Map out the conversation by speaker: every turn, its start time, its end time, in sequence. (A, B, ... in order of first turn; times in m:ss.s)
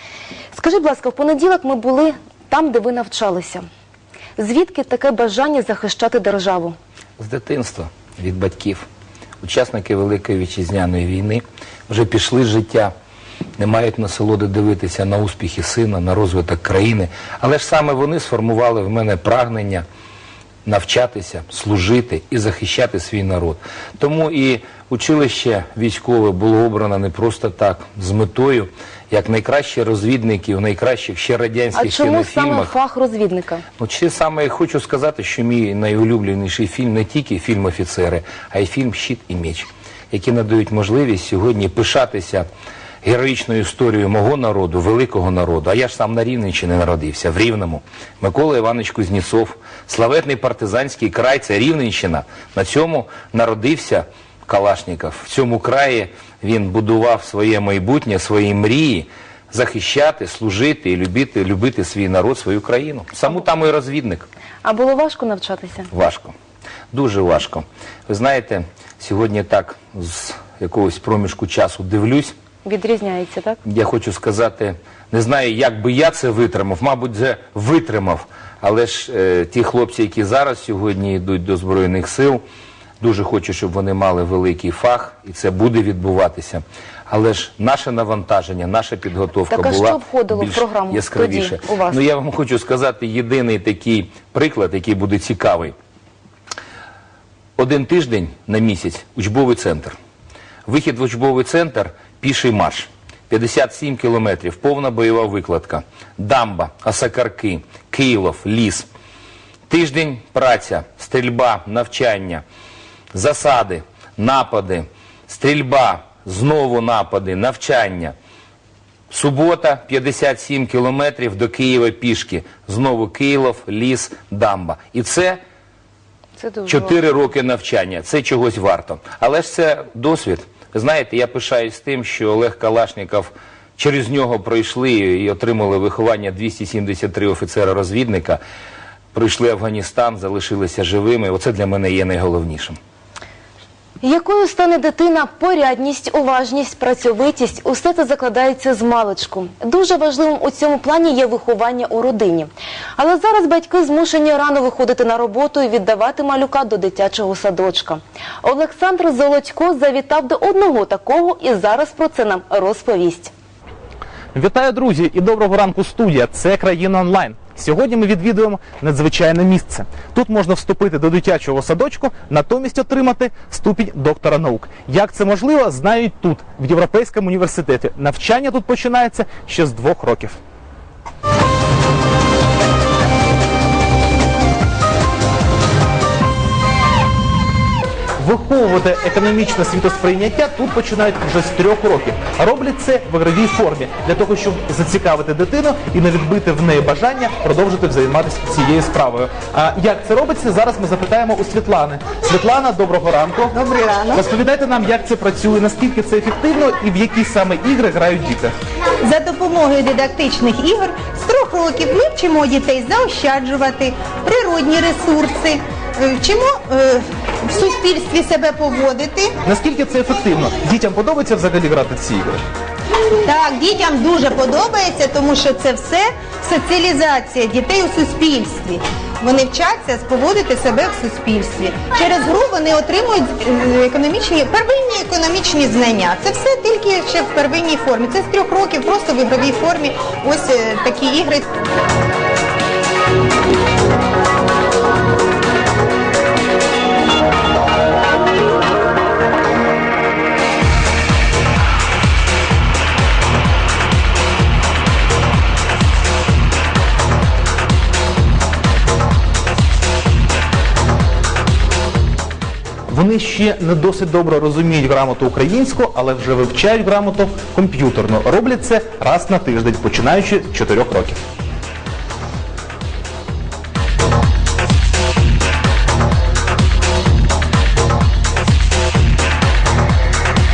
0:00.5-0:03.6 A
0:04.4-0:06.8 A
0:07.2-0:08.9 B
0:09.4-0:12.9 B
0:13.6-0:19.8 B
0:20.6-0:32.7 B
0:31.7-0:33.6 A
0:33.8-0:42.5 B
0:43.0-1:04.3 B
1:04.6-1:05.9 A
1:05.9-1:06.3 B
1:06.9-1:12.3 B
1:12.6-1:13.6 A
1:13.6-1:22.4 B
1:23.0-1:35.7 B
1:29.5-1:32.0 A
1:37.6-1:40.0 B
1:40.6-1:48.9 B
1:49.7-1:52.4 B
1:53.1-1:58.1 B
1:59.1-2:05.4 B
2:06.4-2:07.0 A
2:06.6-2:18.4 B
2:19.1-2:22.8 B
2:24.0-2:43.3 A
2:44.3-3:00.4 C
3:08.2-3:23.6 C
3:23.5-3:24.3 D
3:24.1-3:28.5 C
3:29.0-3:39.3 D
3:39.4-3:42.4 C
3:43.2-4:01.5 D
4:22.9-4:31.2 C